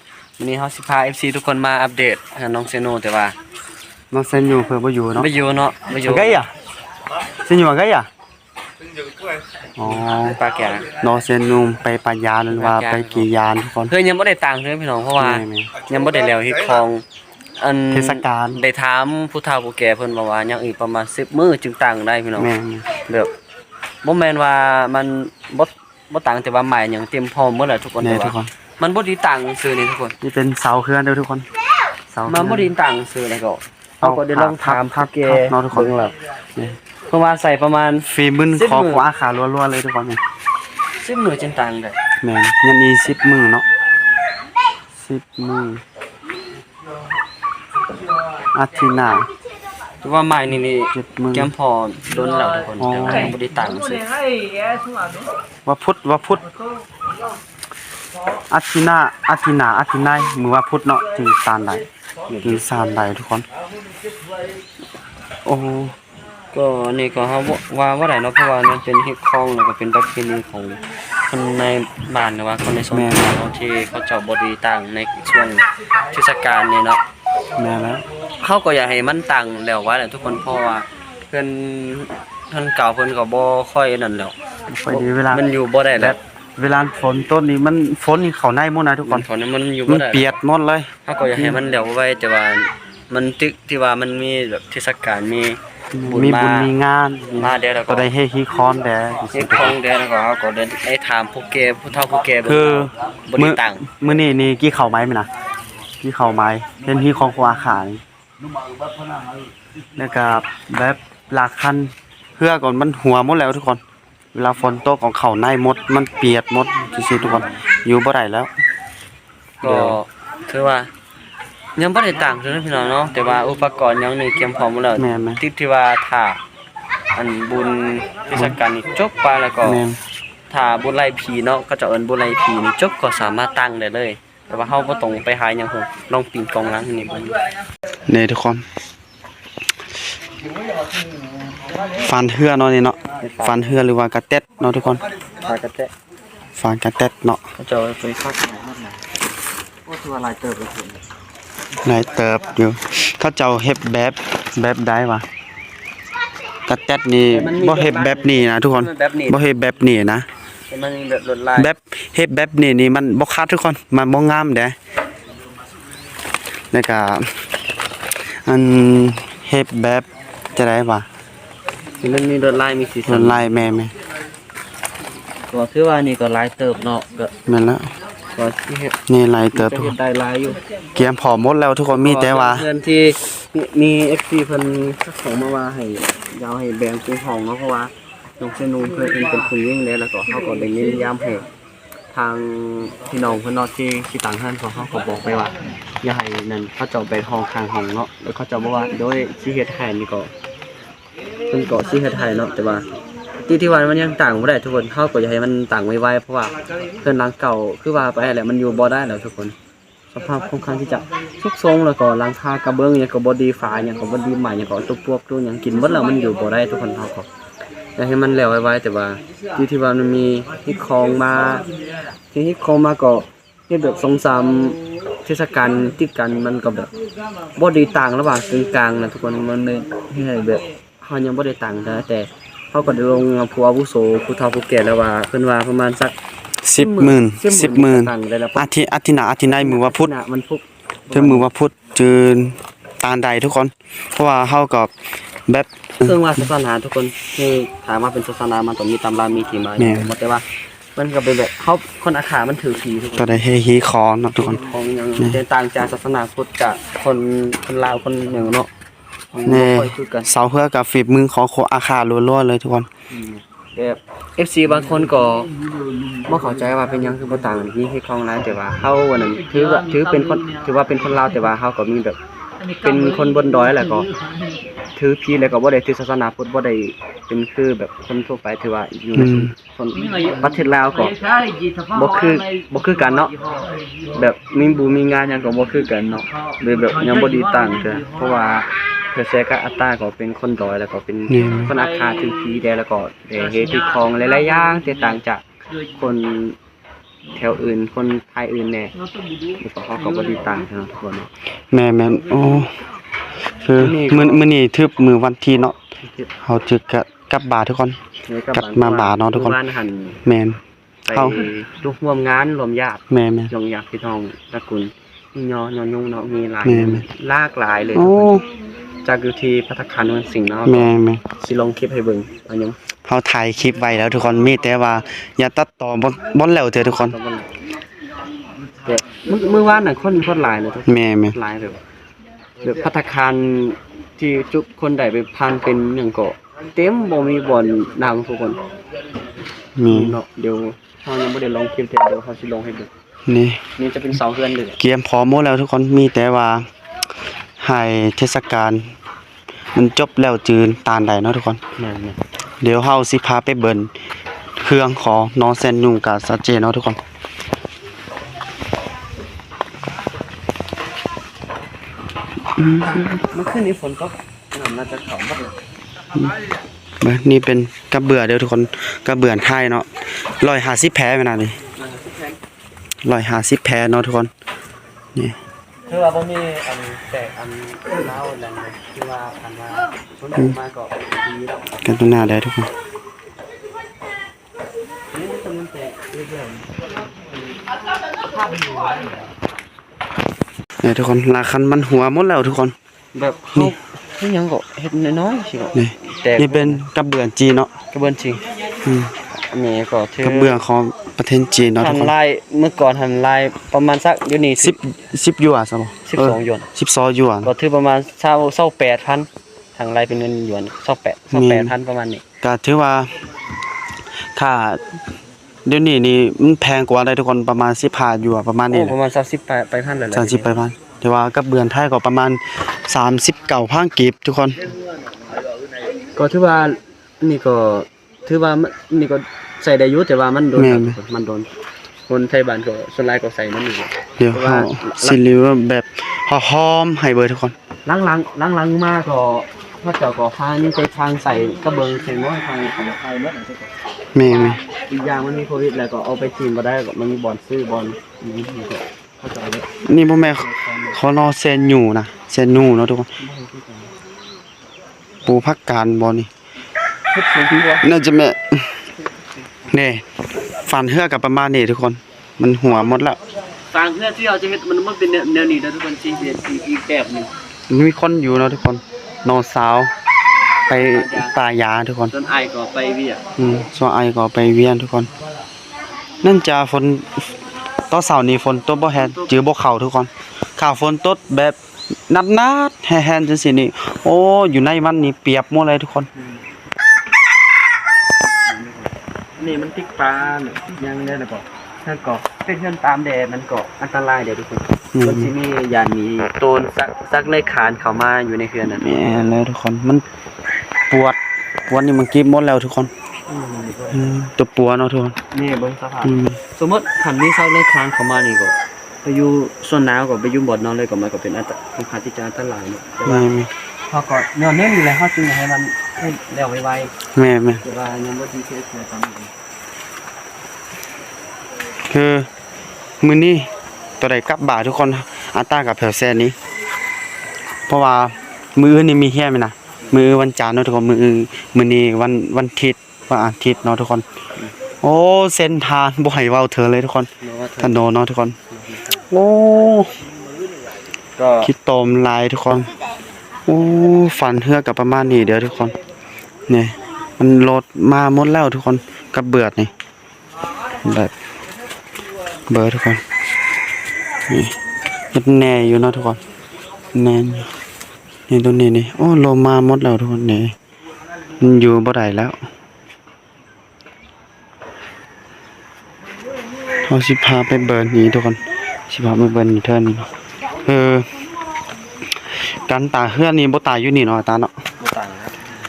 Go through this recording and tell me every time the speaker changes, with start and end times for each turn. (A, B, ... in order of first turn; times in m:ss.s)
0:00.4-0:03.4 A
0:04.1-0:05.3 B
0:05.2-0:06.4 A
0:06.0-0:06.5 B
0:07.4-0:08.1 B
0:09.8-0:10.4 B
0:10.1-0:10.9 A
0:10.9-0:13.9 B
0:12.5-0:13.3 A
0:13.9-0:17.0 A
0:15.2-0:15.7 B
0:17.6-0:22.5 A
0:17.9-0:18.6 B
0:22.4-0:22.8 B
0:23.0-0:23.3 A
0:24.0-0:30.2 A
0:28.0-0:28.5 B
0:30.2-0:31.4 B
0:32.1-0:32.7 B
0:32.2-0:36.1 A
0:34.0-0:35.9 B
0:37.1-0:39.0 A
0:38.1-0:40.2 B
0:41.0-0:42.0 A
0:42.2-0:43.6 B
0:45.0-0:45.8 B
0:48.5-0:49.3 B
0:50.0-0:54.1 A
0:50.9-0:51.5 B
0:52.8-0:53.4 B
0:55.6-0:56.5 B
0:58.5-1:01.8 B
1:02.3-1:02.6 A
1:02.4-1:03.4 B
1:05.4-1:05.9 B
1:06.5-1:17.0 A
1:12.9-1:13.4 B
1:17.6-1:18.0 B
1:18.4-1:24.3 A
1:24.7-1:25.4 B
1:24.9-1:26.2 A
1:26.0-1:29.3 B
1:29.0-1:30.3 A
1:29.9-1:31.6 B
1:31.0-1:36.7 A
1:35.9-1:39.8 B
1:37.4-1:38.1 A
1:39.3-1:43.9 A
1:42.4-1:45.3 B
1:46.0-1:48.0 B
1:50.0-1:53.8 B
1:54.3-1:58.5 B
1:57.2-1:57.6 A
1:59.6-2:00.0 B
1:59.6-2:00.9 A
2:01.8-2:06.4 A
2:05.0-2:05.4 B
2:07.1-2:09.8 A
2:09.6-2:10.0 B
2:10.5-2:17.4 A
2:18.1-2:18.6 B
2:22.0-2:25.0 B
2:23.2-2:23.7 A
2:25.4-2:25.9 A
2:26.6-2:27.4 B
2:27.6-2:29.0 A
2:29.8-2:31.0 A
2:31.8-2:35.2 B
2:36.6-2:40.2 B
2:37.3-2:39.4 A
2:40.7-2:41.7 A
2:41.6-2:44.7 B
2:46.7-2:47.4 B
2:48.4-2:51.0 B
2:52.0-2:53.7 A
2:53.1-2:53.9 B
2:55.5-2:57.3 A
2:57.4-2:57.9 B
2:58.3-2:59.0 A
2:59.1-2:59.9 B
2:59.5-3:00.6 A
3:00.9-3:02.7 B
3:01.9-3:11.4 A
3:12.1-3:20.3 A
3:21.5-3:22.8 A
3:23.4-3:29.5 A
3:30.1-3:37.3 A
3:38.0-3:41.6 A
3:42.3-3:46.9 A
3:47.6-3:56.1 A
3:56.6-4:00.1 B
3:56.7-3:58.7 A
3:59.6-4:01.5 A
4:01.1-4:04.9 B
4:05.5-4:06.3 B
4:06.0-4:13.4 A
4:09.8-4:10.1 B
4:13.2-4:14.6 B
4:14.4-4:18.7 A
4:19.3-4:20.3 A
4:19.4-4:22.9 B
4:23.1-4:25.5 A
4:26.2-4:32.2 A
4:32.8-4:34.1 A
4:35.0-4:41.2 A
4:39.1-4:39.5 B
4:41.9-4:43.4 A
4:44.1-4:56.6 A
4:51.3-4:51.7 B
4:57.3-4:58.9 A
4:59.6-5:01.3 A
5:01.7-5:02.8 B
5:03.6-5:05.8 B
5:03.7-5:04.4 A
5:06.0-5:06.3 A
5:06.4-5:08.0 B
5:08.2-5:10.2 A
5:08.5-5:09.6 B
5:10.2-5:10.6 B
5:11.1-5:18.4 A
5:11.1-5:11.4 B
5:13.1-5:13.5 B
5:16.6-5:17.0 B
5:17.9-5:18.4 B
5:19.0-5:22.8 A
5:20.6-5:21.2 B
5:23.0-5:27.2 B
5:26.8-5:27.6 A
5:28.8-5:31.8 A
5:30.8-5:31.3 B
5:32.6-5:38.6 A
5:39.8-5:40.2 B
5:39.9-5:42.9 A
5:43.3-5:43.6 B
5:43.8-5:44.8 A
5:44.8-5:46.7 B
5:47.6-5:48.9 B
5:49.7-5:51.6 B
5:51.8-5:52.2 A
5:52.6-5:53.9 B
5:54.6-5:57.0 B
6:02.6-6:03.1 B
6:02.8-6:05.6 A
6:07.0-6:11.6 B
6:11.8-6:12.4 A
6:13.0-6:14.3 B
6:15.9-6:21.8 A
6:21.8-6:22.7 B
6:25.1-6:26.7 A
6:30.8-6:32.8 B
6:33.1-6:36.8 A
6:35.7-6:37.7 B
6:37.9-6:38.4 A
6:38.8-6:39.1 B
6:39.4-6:40.6 A
6:40.2-6:42.1 B
6:41.8-6:44.8 A
6:44.6-6:47.5 B
6:46.0-6:46.7 A
6:47.4-6:52.2 A
6:51.3-6:51.7 B
6:52.4-6:53.1 B
6:54.2-6:54.8 B
6:55.6-6:59.0 B
6:58.7-7:00.5 A
7:00.1-7:04.7 B
7:06.1-7:11.5 A
7:10.6-7:11.0 B
7:12.1-7:15.2 A
7:14.2-7:17.5 B
7:17.8-7:23.7 A
7:24.1-7:24.6 B
7:24.3-7:29.7 A
7:29.8-7:33.1 B
7:30.2-7:31.0 A
7:33.2-7:33.9 A
7:35.2-7:36.3 B
7:37.1-7:37.9 A
7:37.6-7:38.8 B
7:39.7-7:40.0 B
7:40.6-7:43.2 B
7:43.7-7:47.3 A
7:47.7-7:49.9 B
7:50.7-7:52.1 B
7:50.7-7:51.3 A
7:52.1-7:53.2 A
7:53.4-7:55.1 B
7:56.2-7:57.2 B
7:57.9-8:01.6 B
7:58.9-7:59.4 A
8:02.1-8:06.1 B
8:06.1-8:06.4 A
8:08.5-8:19.0 A
8:14.9-8:15.3 B
8:18.7-8:20.0 B
8:20.9-8:22.9 B
8:23.3-8:24.2 A
8:23.9-8:25.2 B
8:25.3-8:33.3 A
8:26.0-8:26.4 B
8:33.0-8:33.5 B
8:33.9-8:36.9 A
8:37.1-8:37.6 B
8:37.6-8:39.3 A
8:41.9-8:42.3 B
8:43.0-8:43.5 B
8:44.0-8:46.3 B
8:47.7-8:54.0 B
8:54.8-8:58.4 B
8:57.2-8:57.8 A
8:58.5-8:59.0 A
8:59.1-8:59.9 B
9:01.2-9:01.5 A
9:01.4-9:02.7 B
9:03.5-9:05.7 B
9:06.5-9:09.7 B
9:10.8-9:11.1 B
9:12.5-9:13.0 B
9:14.3-9:14.5 B
9:15.1-9:16.2 B
9:16.9-9:17.5 B
9:18.3-9:20.5 B
9:21.4-9:22.4 B
9:26.8-9:30.1 B
9:30.6-9:31.1 B
9:32.3-9:34.5 B
9:34.8-9:35.4 A